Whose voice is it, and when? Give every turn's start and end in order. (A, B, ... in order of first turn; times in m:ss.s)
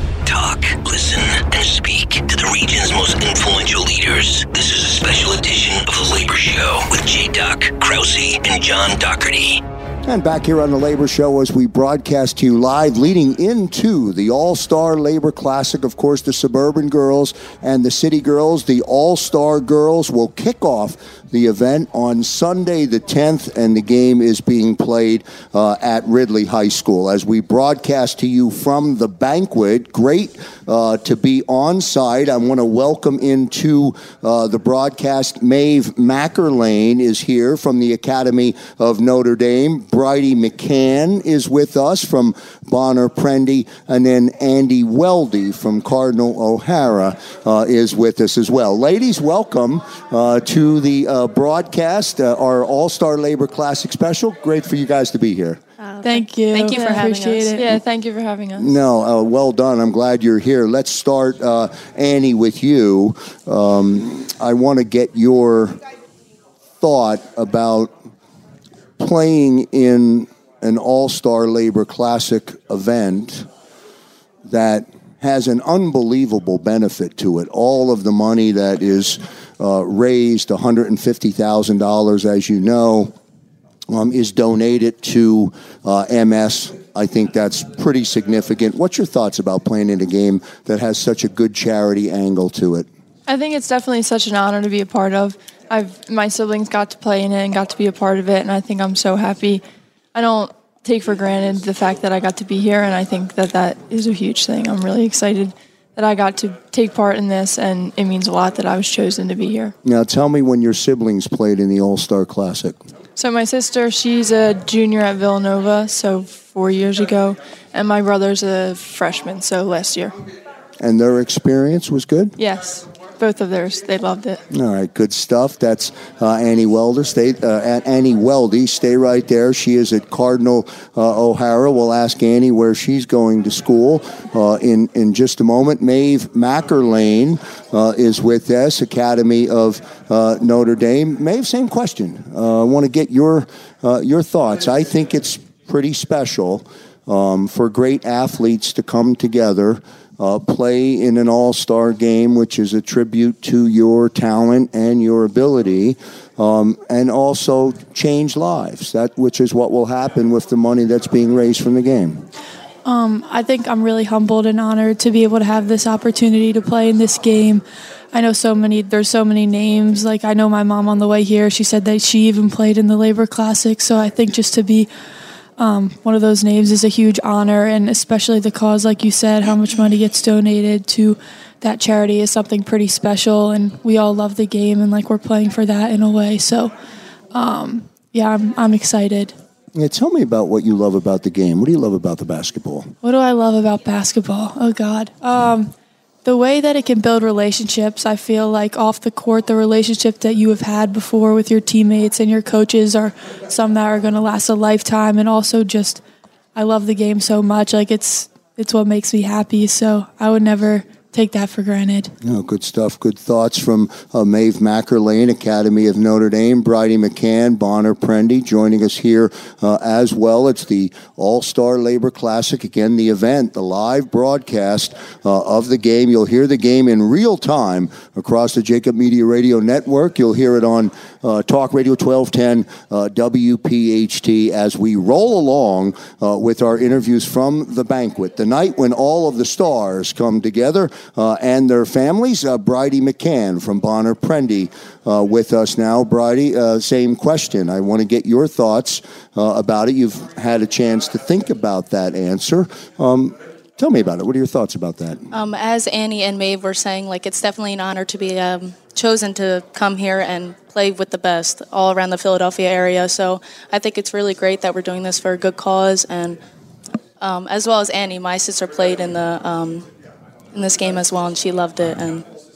0:00.2-0:09.6 A
0:10.0-0:55.6 B
0:55.8-0:57.6 C
0:56.0-0:57.7 D
0:56.7-0:57.0 E
0:57.6-0:58.7 E
0:58.6-1:05.8 B
1:06.8-1:08.0 B
1:09.0-1:13.5 B
1:14.4-1:23.2 B
1:23.9-1:32.9 B
1:33.3-1:39.6 E
1:40.1-1:49.8 E
1:49.8-1:52.8 B
1:53.2-2:00.1 E
2:00.8-2:02.4 B
2:02.4-2:04.4 E
2:04.5-2:42.3 B
2:42.8-2:54.9 D
2:55.6-3:06.7 D
3:07.3-3:09.4 D
3:09.8-3:12.9 B
3:13.0-3:15.7 D
3:16.2-3:26.0 D
3:26.6-3:32.1 D
3:32.2-4:15.3 B
4:15.3-4:26.4 C
4:27.2-4:29.9 C
4:30.5-4:32.3 C